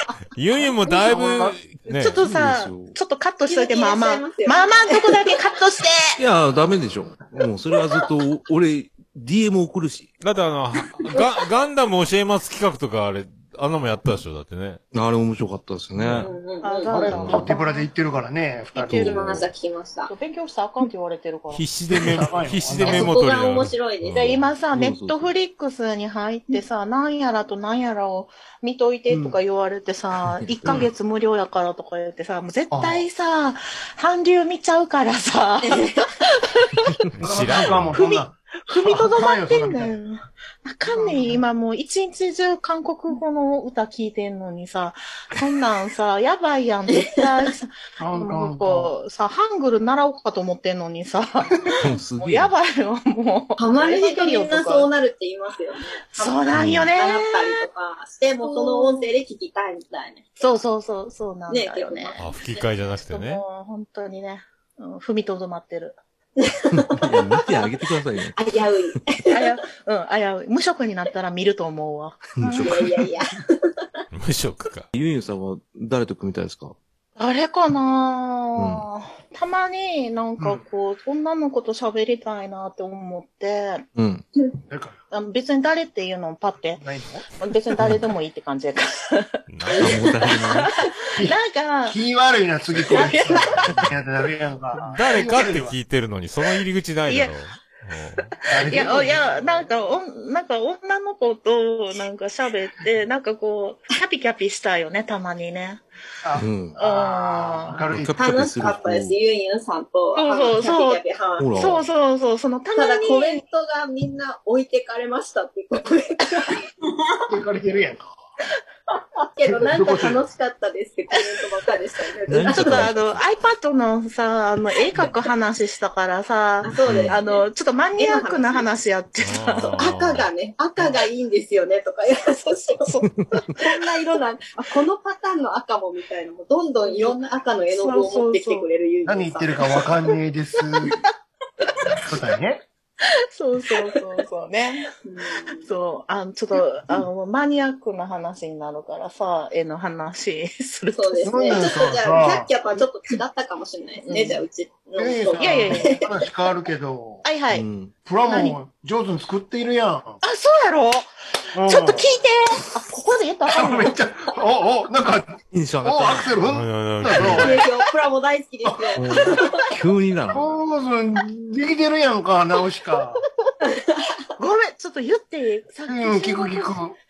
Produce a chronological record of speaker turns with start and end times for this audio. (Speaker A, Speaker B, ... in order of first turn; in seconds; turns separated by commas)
Speaker A: 0.3-2.2, Speaker B: 0.9-1.3, Speaker C: 1.1-1.5, Speaker B: 1.9-6.2, Speaker D: 2.2-3.0, Speaker E: 3.4-5.2, Speaker D: 6.2-10.1, Speaker A: 10.2-14.8, Speaker D: 14.9-16.3, Speaker A: 15.9-16.3, Speaker E: 16.2-17.1, Speaker B: 16.6-17.9, Speaker C: 16.9-19.4, Speaker D: 17.1-17.5, Speaker B: 18.8-19.2, Speaker E: 18.9-20.1, Speaker B: 20.1-21.6, Speaker A: 21.5-24.5, Speaker C: 21.9-23.1, Speaker E: 22.8-24.4, Speaker B: 24.2-36.9, Speaker D: 24.7-25.3, Speaker D: 30.4-30.9, Speaker C: 32.7-33.1, Speaker E: 35.6-36.1, Speaker A: 37.1-38.0, Speaker C: 37.2-39.9, Speaker B: 37.9-54.9, Speaker C: 40.9-41.4, Speaker E: 46.9-47.3, Speaker C: 48.0-48.9, Speaker D: 51.8-52.5, Speaker E: 53.6-60.4, Speaker B: 56.1-57.7, Speaker D: 56.5-56.9, Speaker B: 58.4-59.1, Speaker B: 60.4-62.2, Speaker E: 61.5-62.7, Speaker A: 62.2-63.4, Speaker B: 63.0-66.0, Speaker E: 66.4-67.7, Speaker D: 66.7-69.0, Speaker E: 68.3-69.6, Speaker B: 69.3-72.8, Speaker D: 72.4-73.0, Speaker E: 72.6-73.8, Speaker A: 74.1-74.9, Speaker D: 74.9-76.8, Speaker B: 77.2-83.9, Speaker D: 78.6-78.9, Speaker D: 84.0-84.2, Speaker C: 84.7-85.0, Speaker B: 85.1-86.8, Speaker C: 86.8-87.3, Speaker B: 87.4-89.3, Speaker A: 89.5-90.1, Speaker E: 89.7-90.6, Speaker D: 89.8-90.7, Speaker B: 90.2-92.0, Speaker C: 91.2-95.8, Speaker B: 92.8-93.9, Speaker E: 92.9-93.4, Speaker A: 94.9-98.3, Speaker B: 97.1-97.3, Speaker C: 98.5-99.6, Speaker B: 98.6-105.8, Speaker C: 106.2-108.7, Speaker D: 106.4-106.8, Speaker B: 106.8-107.8, Speaker D: 107.9-109.2, Speaker E: 108.2-111.5, Speaker B: 110.2-111.0, Speaker D: 111.4-111.9, Speaker B: 111.5-113.4, Speaker E: 112.8-116.7, Speaker C: 117.3-118.1, Speaker E: 119.3-122.9, Speaker C: 119.4-120.2, Speaker D: 122.3-123.2, Speaker B: 122.4-129.8, Speaker E: 126.6-128.7, Speaker A: 129.2-130.3, Speaker E: 129.7-139.9, Speaker B: 132.8-133.1, Speaker D: 133.1-133.6, Speaker B: 136.8-137.2, Speaker B: 137.7-138.7, Speaker C: 139.1-141.0, Speaker C: 142.0-142.6, Speaker B: 143.3-144.9, Speaker E: 145.0-145.7, Speaker B: 145.5-151.6, Speaker E: 150.9-156.1, Speaker C: 151.2-152.5, Speaker B: 154.1-154.4, Speaker C: 155.0-157.2, Speaker B: 155.4-156.0, Speaker B: 157.2-157.7, Speaker D: 157.5-157.9, Speaker C: 158.1-160.2, Speaker B: 158.3-158.6, Speaker B: 160.2-161.1, Speaker C: 161.5-162.1, Speaker B: 161.7-163.9, Speaker C: 163.5-167.7, Speaker D: 165.5-166.4, Speaker A: 166.4-167.6, Speaker E: 167.2-169.7, Speaker C: 168.7-169.3, Speaker D: 169.0-170.5, Speaker C: 170.3-173.2, Speaker E: 173.7-174.1, Speaker B: 174.4-176.8, Speaker C: 175.9-177.0